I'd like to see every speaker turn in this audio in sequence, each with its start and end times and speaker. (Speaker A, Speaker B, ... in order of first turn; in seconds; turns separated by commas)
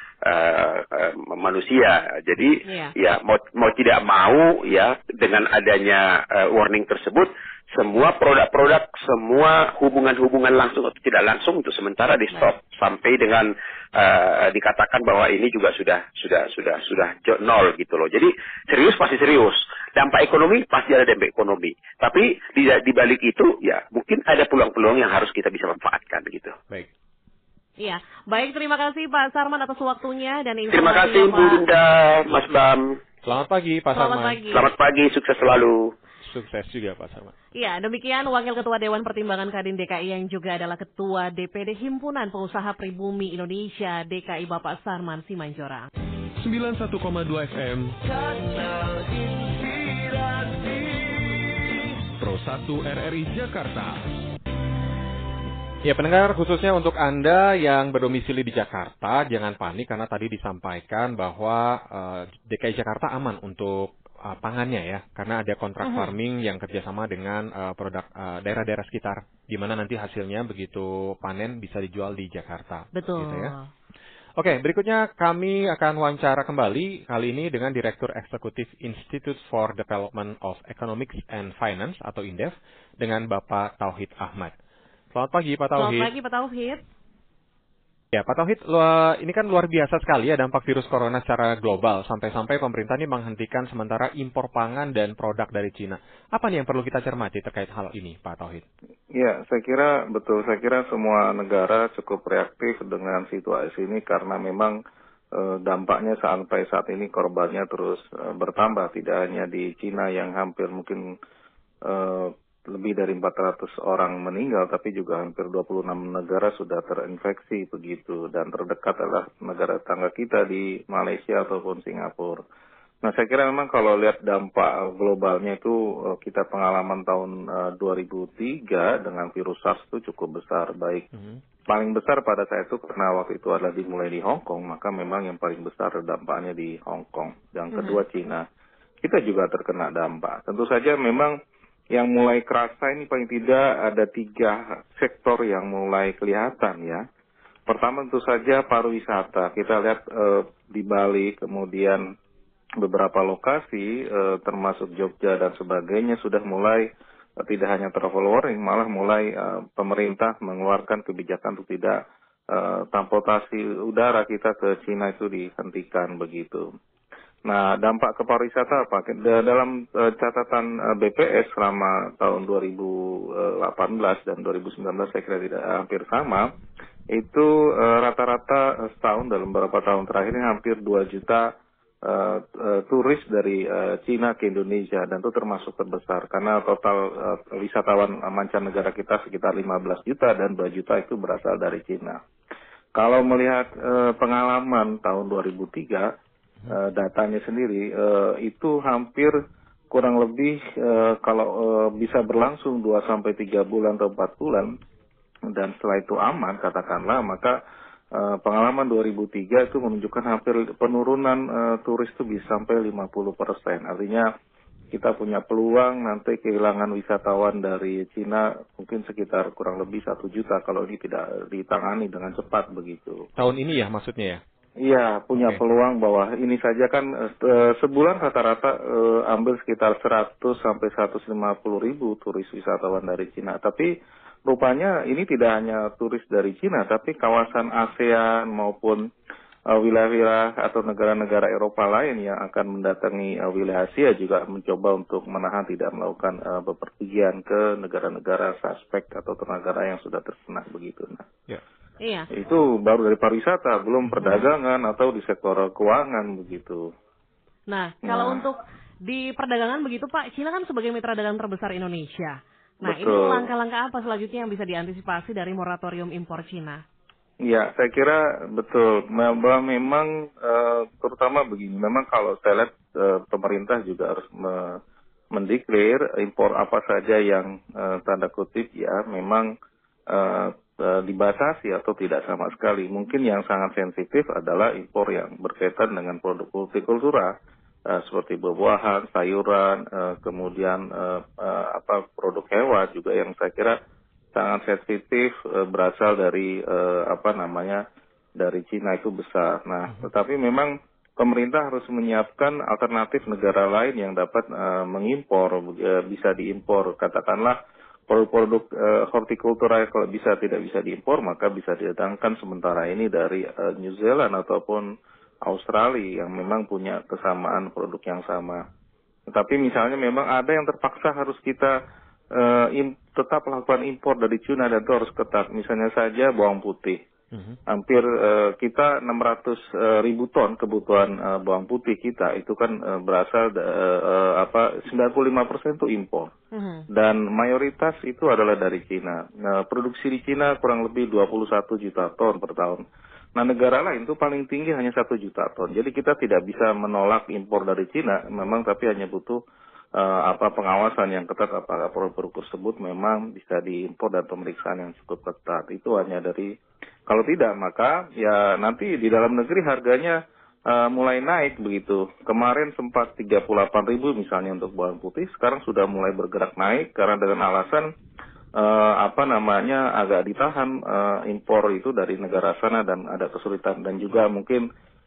Speaker A: 0.2-26.6, Speaker B: 2.6-2.9, Speaker B: 27.8-31.7, Speaker A: 30.7-33.0, Speaker C: 33.2-34.4, Speaker B: 33.9-34.7, Speaker A: 34.5-35.9, Speaker C: 36.2-37.3, Speaker B: 37.5-45.9, Speaker D: 46.4-48.1, Speaker D: 52.2-54.0, Speaker C: 55.9-73.5, Speaker B: 65.8-66.1, Speaker B: 72.9-73.7, Speaker C: 74.4-84.5, Speaker C: 85.1-86.1, Speaker B: 85.8-86.8, Speaker C: 88.1-98.7, Speaker E: 99.2-104.8, Speaker E: 105.3-111.0, Speaker E: 111.8-122.4, Speaker E: 123.0-131.1, Speaker E: 131.7-138.5, Speaker B: 137.7-138.0, Speaker E: 139.0-141.4, Speaker E: 141.9-147.1, Speaker E: 147.7-152.1, Speaker E: 152.8-156.9, Speaker E: 157.4-162.0, Speaker E: 162.5-166.7, Speaker E: 167.5-176.5, Speaker E: 177.1-181.5, Speaker E: 182.0-192.2, Speaker E: 193.0-196.1, Speaker E: 196.7-199.4, Speaker E: 199.9-204.7, Speaker E: 205.5-207.6, Speaker E: 208.2-214.3, Speaker E: 214.9-223.3, Speaker C: 223.4-224.4, Speaker E: 224.8-233.9, Speaker C: 225.3-225.6, Speaker E: 234.5-239.0, Speaker E: 239.7-251.3, Speaker B: 252.0-252.3, Speaker E: 252.3-256.9, Speaker B: 254.2-254.5, Speaker B: 257.7-266.8, Speaker E: 258.1-258.4, Speaker E: 262.9-263.5, Speaker E: 267.4-274.8, Speaker E: 275.3-279.5, Speaker E: 280.1-287.3, Speaker E: 287.9-293.8, Speaker E: 294.3-297.8, Speaker E: 298.4-307.6, Speaker E: 308.1-314.9, Speaker E: 315.5-318.6, Speaker E: 319.3-321.8, Speaker E: 322.3-327.0, Speaker C: 327.3-327.6, Speaker E: 327.7-336.3, Speaker B: 336.5-336.9, Speaker E: 336.9-342.8, Speaker E: 343.4-349.4, Speaker E: 350.0-356.5, Speaker E: 357.1-360.2, Speaker E: 360.7-367.9, Speaker E: 368.6-374.7